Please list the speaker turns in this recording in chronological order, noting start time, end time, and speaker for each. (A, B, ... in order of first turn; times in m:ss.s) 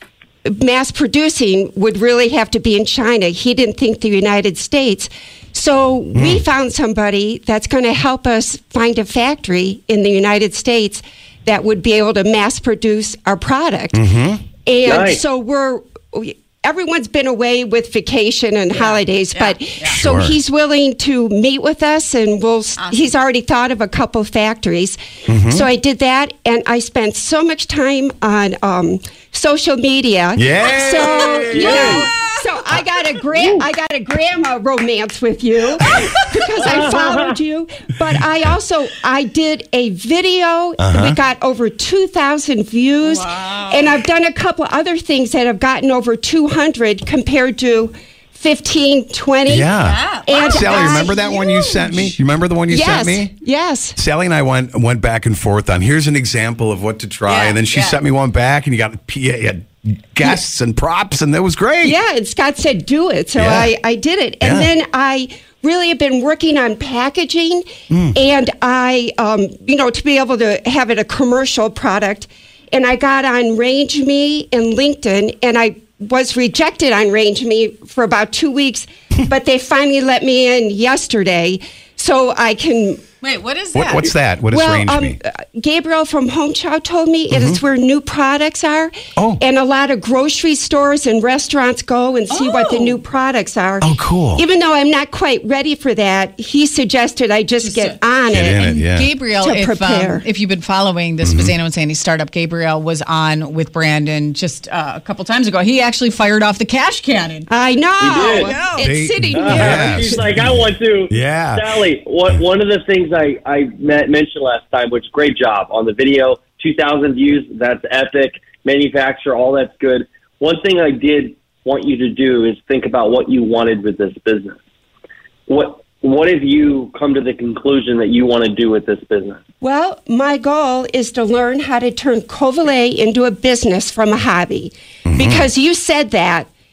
0:00.5-0:14.0 A
0:06.1-0:06.4 B
0:13.9-0:14.4 B
0:14.6-0:49.7 A
0:14.8-0:15.2 C
0:18.7-0:20.0 D
0:19.9-0:20.4 B
0:22.8-0:23.1 D
0:25.3-0:25.7 B
0:30.4-0:31.9 B
0:31.5-0:32.1 C
0:36.7-0:37.2 C
0:40.8-0:41.2 B
0:43.0-0:43.9 D
0:49.5-0:53.3 B
0:49.7-0:51.1 D
0:50.2-0:52.1 A
0:52.7-0:54.0 A
0:54.0-1:02.0 B
0:57.2-0:58.0 D
1:01.8-1:23.0 A
1:03.4-1:03.7 B
1:04.4-1:04.7 B
1:07.9-1:08.2 B
1:23.2-1:24.1 D
1:23.7-1:25.2 B
1:24.5-1:38.6 A
1:27.3-1:27.6 B
1:32.3-1:33.0 D
1:33.8-1:34.4 B
1:37.6-1:38.0 D
1:38.3-1:39.1 B
1:38.6-1:47.5 D
1:39.4-1:40.2 A
1:41.2-1:41.6 B
1:47.5-1:50.2 A
1:48.0-1:48.6 C
1:48.4-1:48.9 D
1:48.8-1:51.7 B
1:49.3-2:04.6 C
2:05.5-2:09.4 C
2:09.6-2:16.5 A
2:15.0-2:15.5 B